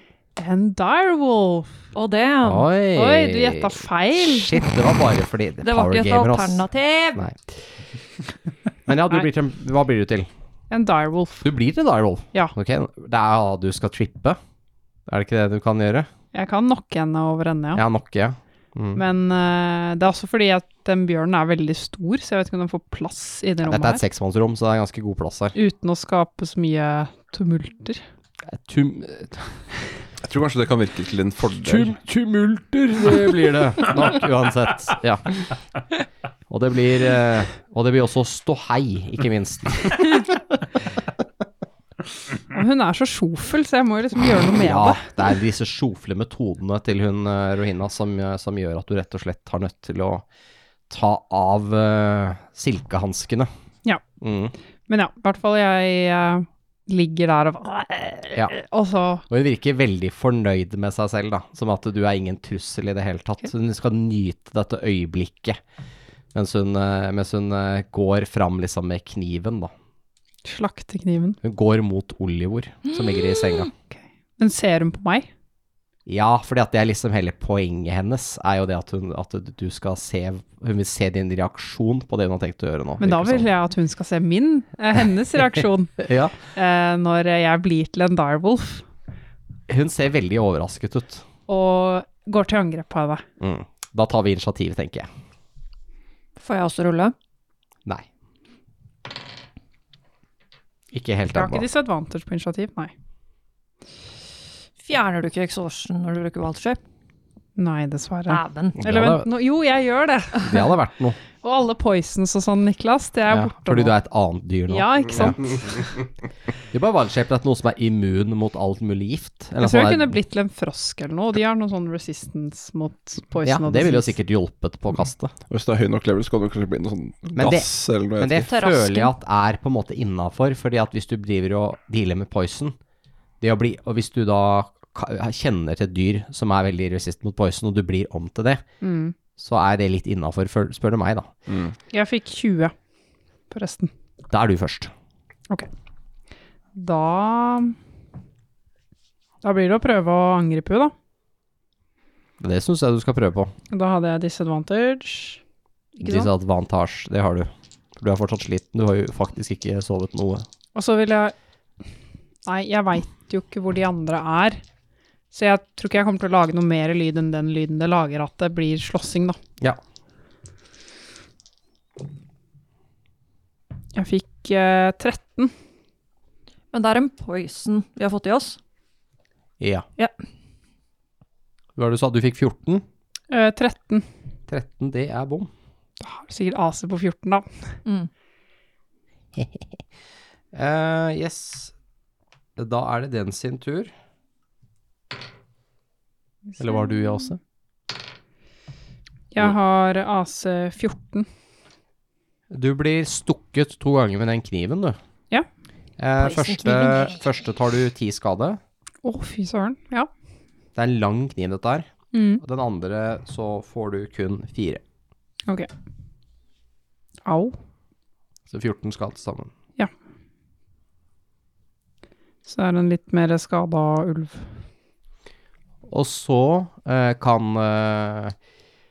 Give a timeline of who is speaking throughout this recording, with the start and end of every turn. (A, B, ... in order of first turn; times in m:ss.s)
0:00.4-0:01.8 A
0:01.9-0:02.7 B
0:02.4-0:07.5 C
0:02.9-0:04.6 A
0:05.6-0:07.2 B
0:08.9-0:10.3 C
0:10.7-0:11.5 A
0:11.4-0:14.4 C
0:15.1-0:16.1 C
0:16.3-0:17.8 A
0:17.7-0:19.0 C
0:18.9-0:24.0 A
0:23.6-0:25.5 C
0:25.5-0:28.0 A
0:28.5-0:29.4 C
0:30.2-0:32.0 D
0:31.6-0:35.4 C
0:36.5-0:40.2 C
0:42.5-0:45.1 A
0:44.6-0:50.2 C
0:50.9-0:53.5 C
0:54.2-0:54.5 C
0:54.9-0:59.2 A
0:59.3-1:05.6 C
1:06.3-1:09.7 C
1:10.4-1:11.4 A
1:11.4-1:13.7 C
1:13.9-1:15.3 A
1:16.0-1:23.5 C
1:23.0-1:26.0 A
1:26.0-1:26.3 C
1:26.5-1:28.8 A
1:29.7-1:31.2 C
1:31.5-1:33.2 A
1:33.4-1:35.1 C
1:36.4-1:37.1 B
1:40.9-1:41.6 C
1:41.3-1:42.9 A
1:44.8-1:46.8 B
1:47.6-1:50.6 A
1:48.3-1:48.8 B
1:48.8-1:49.3 C
1:50.4-1:51.2 C
1:51.4-1:53.9 A
1:53.3-1:55.8 C
1:54.7-1:55.7 A
1:56.7-2:00.1 C
1:59.6-2:04.1 A
2:03.4-2:05.3 C
2:05.5-2:08.4 D
2:07.3-2:12.8 C
2:08.4-2:09.1 B
2:13.4-2:18.6 C
2:18.8-2:19.1 A
2:19.4-2:21.3 C
2:21.5-2:21.7 D
2:21.9-2:22.7 A
2:23.5-2:23.9 A
2:24.3-2:24.9 C
2:26.7-2:27.8 A
2:29.4-2:30.9 A
2:32.4-2:33.5 C
2:33.7-2:35.4 A
2:36.0-2:36.3 A
2:36.0-2:40.5 C
2:40.7-2:41.3 A
2:42.4-2:44.6 A
2:45.3-2:49.4 A
2:53.9-2:55.5 A
2:56.7-2:58.6 B
2:59.6-2:59.9 C
3:01.8-3:02.8 C
3:03.3-3:04.1 A
3:04.5-3:05.5 C
3:06.0-3:07.8 A
3:10.5-3:11.7 C
3:12.6-3:13.9 C
3:16.5-3:17.3 A
3:16.6-3:17.4 C
3:19.3-3:21.3 A
3:22.5-3:25.0 C
3:26.0-3:28.6 C
3:26.2-3:27.1 B
3:29.0-3:30.1 A
3:30.8-3:31.9 C
3:32.1-3:32.4 A
3:32.4-3:34.8 C
3:37.2-3:37.5 A
3:38.5-3:39.5 C
3:42.4-3:44.5 A
3:45.9-3:48.3 C